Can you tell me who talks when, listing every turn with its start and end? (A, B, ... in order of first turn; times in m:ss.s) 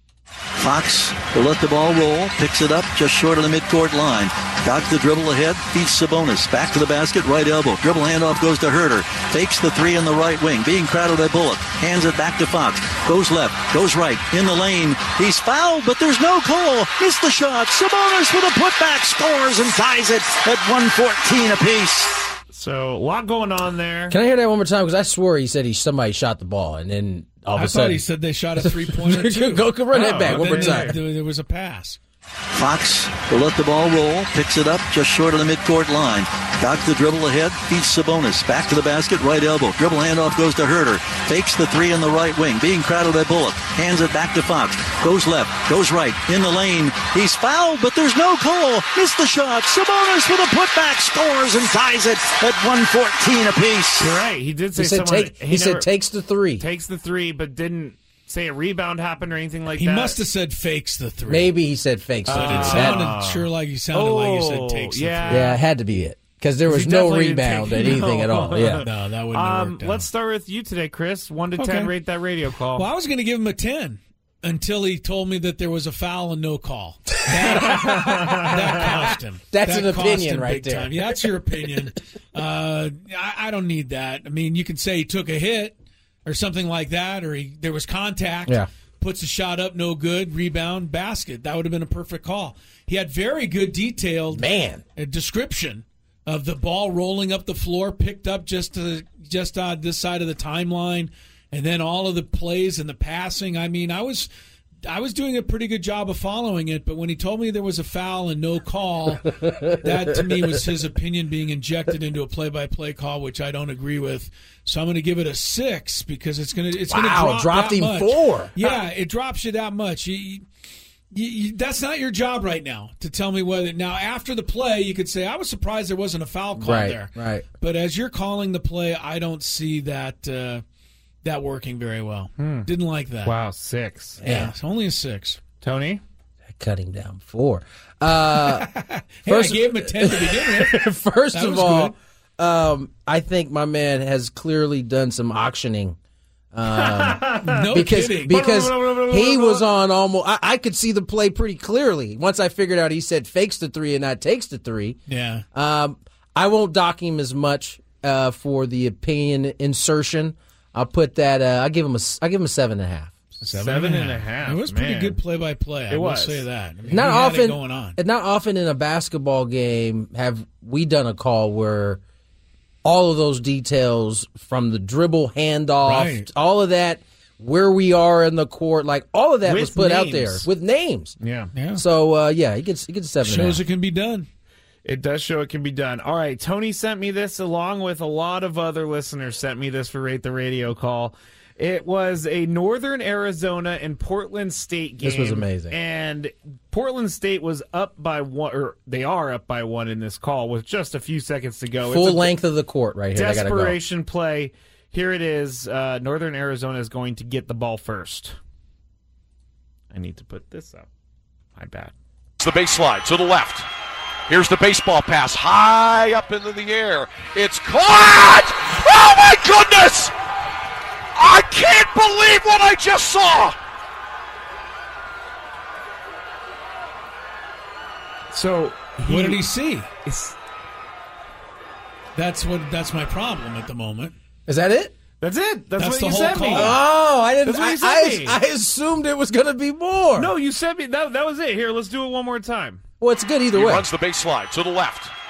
0:00.6-0:22.3 A
0:22.5-0:24.2 B
0:24.1-0:28.0 C
0:27.5-0:32.0 D
0:28.6-0:30.9 C
0:29.9-0:31.0 B
0:32.5-0:54.2 A
0:54.0-0:55.9 B
0:54.8-0:56.6 C
0:56.6-1:00.2 B
0:59.7-1:01.5 D
1:01.3-1:03.0 C
1:02.3-1:05.5 B
1:02.3-1:05.6 D
1:05.3-1:08.8 C
1:06.7-1:12.9 B
1:08.8-1:10.1 D
1:11.6-1:11.9 D
1:12.7-1:44.3 D
1:17.6-1:19.0 B
1:17.6-1:18.9 C
1:19.5-1:21.1 C
1:34.3-1:34.8 C
1:44.8-2:00.4 D
1:56.9-1:58.6 C
2:01.1-2:10.6 D
2:06.6-2:07.4 C
2:11.2-2:13.4 D
2:12.4-2:12.7 B
2:13.2-2:14.2 B
2:14.2-2:14.5 C
2:14.2-2:15.4 D
2:15.6-2:16.0 B
2:16.6-2:18.7 C
2:18.3-2:21.9 D
2:19.2-2:26.0 C
2:26.5-2:35.0 C
2:26.7-2:29.7 B
2:27.4-2:28.4 D
2:35.1-2:35.4 D
2:35.5-2:43.2 C
2:43.4-2:48.0 D
2:43.4-2:45.2 B
2:45.9-2:46.4 B
2:46.9-2:52.0 C
2:52.8-3:01.2 C
2:55.8-2:56.3 D
2:59.4-3:00.4 B
3:01.2-3:01.5 B
3:01.5-3:01.8 D
3:01.8-3:03.6 C
3:03.2-3:04.3 D
3:04.8-3:22.4 B
3:15.0-3:15.8 C
3:21.8-3:23.8 C
3:23.1-3:28.4 B
3:29.9-3:30.9 B
3:31.6-3:31.9 B
3:32.4-3:33.7 E
3:34.3-3:40.1 E
3:41.2-3:43.6 E
3:48.3-3:49.4 B
3:49.0-3:49.9 D
3:50.0-3:50.4 B
3:52.1-3:54.1 D
3:54.5-3:54.9 C
3:55.2-3:56.8 B
3:55.8-3:56.8 D
3:56.5-4:00.3 C
3:57.4-3:58.4 B
4:00.2-4:02.8 B
4:03.0-4:03.9 C
4:03.5-4:05.1 E